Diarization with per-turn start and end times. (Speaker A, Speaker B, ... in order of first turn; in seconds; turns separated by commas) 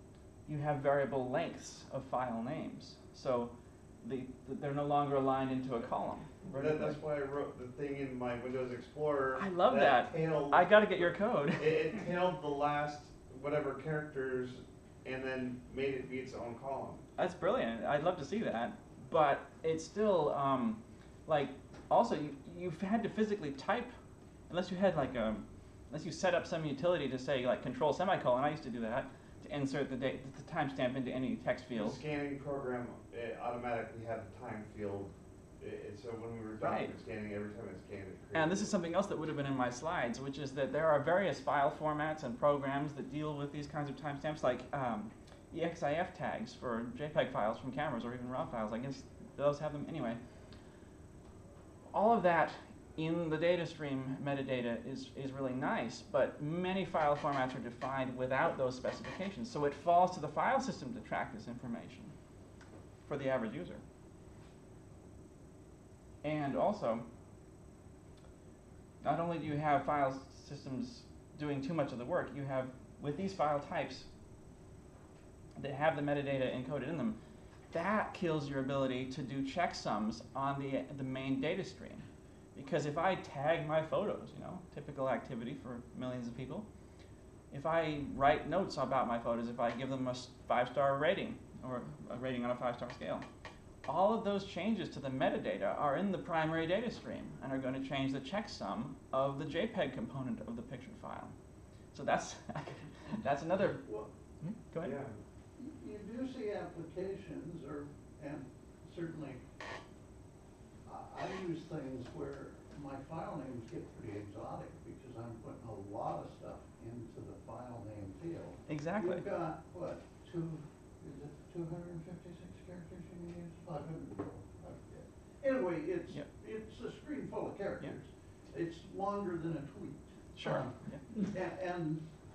Speaker A: 0.5-7.0, Speaker B: 6.4-17.1, Speaker A: 9.3-11.8, Speaker A: 17.2-23.9, Speaker A: 24.5-32.0, Speaker B: 31.7-38.8, Speaker A: 36.6-36.9, Speaker A: 38.3-50.2, Speaker A: 51.9-62.1, Speaker A: 63.0-63.8, Speaker A: 66.2-67.0, Speaker A: 69.0-74.1, Speaker A: 75.6-77.2, Speaker A: 77.7-86.7, Speaker A: 87.5-93.2, Speaker A: 93.8-101.3, Speaker A: 101.9-103.8, Speaker C: 103.8-104.1, Speaker A: 104.4-105.0, Speaker B: 104.8-105.2, Speaker C: 105.5-109.4, Speaker C: 110.8-132.0, Speaker A: 118.7-119.2, Speaker A: 130.3-131.0